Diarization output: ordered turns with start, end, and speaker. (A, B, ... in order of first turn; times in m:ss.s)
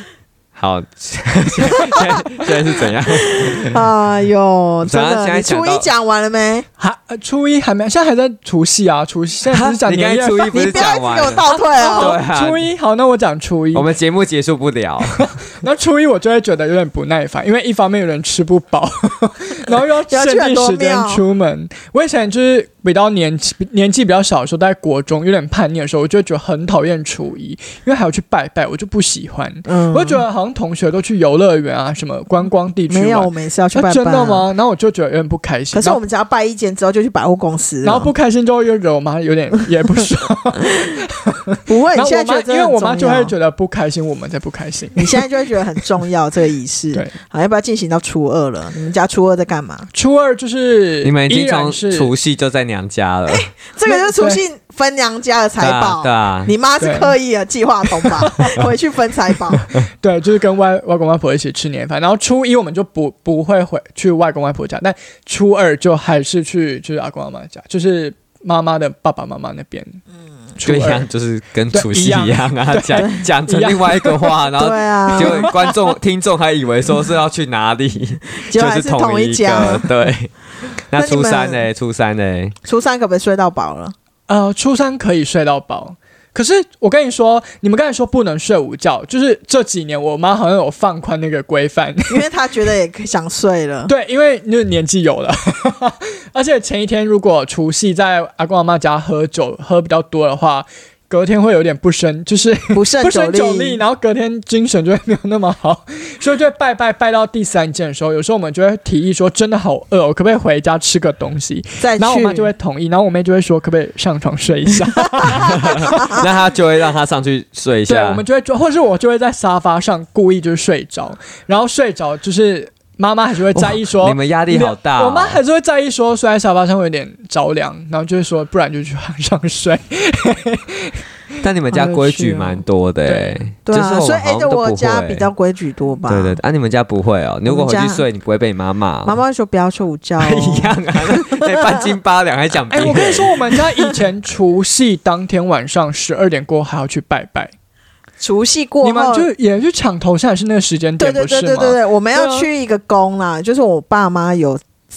0:00.6-0:03.9 A
0:01.8-0:02.1 B
0:03.1-0:06.7 B
0:04.9-0:05.9 A
0:06.8-0:13.9 C
0:09.5-0:12.6 A
0:10.5-0:12.2 B
0:13.7-0:15.3 A
0:15.2-0:36.0 C
0:20.1-0:21.2 B
0:29.7-0:30.2 B
0:32.9-0:34.5 B
0:35.7-0:38.1 B
0:37.8-0:45.3 C
0:41.7-0:43.3 B
0:45.0-0:49.9 B
0:49.9-0:52.1 C
0:51.0-0:53.5 A
0:53.3-0:59.8 B
0:53.9-0:54.4 C
0:55.6-0:56.5 A
0:56.8-0:57.2 C
0:57.9-0:58.6 C
1:00.0-1:10.0 C
1:10.6-1:11.1 C
1:10.6-1:20.3 A
1:11.7-1:14.4 C
1:14.6-1:15.5 B
1:15.2-1:15.7 C
1:18.5-1:19.9 B
1:20.9-1:22.6 A
1:21.0-1:21.6 B
1:22.6-1:23.9 B
1:24.3-1:32.3 C
1:32.1-1:33.9 B
1:33.9-1:56.2 C
1:42.7-1:43.8 B
1:51.8-1:52.5 B
1:55.3-1:58.2 A
1:57.9-2:11.0 C
2:03.6-2:05.4 A
2:11.4-2:15.3 A
2:11.7-2:12.6 B
2:13.1-2:13.4 C
2:13.7-2:16.4 B
2:16.1-2:19.2 A
2:17.5-2:18.0 B
2:19.0-2:21.9 B
2:20.2-2:23.3 A
2:22.7-2:27.5 C
2:28.2-2:29.3 B
2:28.8-2:32.5 C
2:31.0-2:34.6 B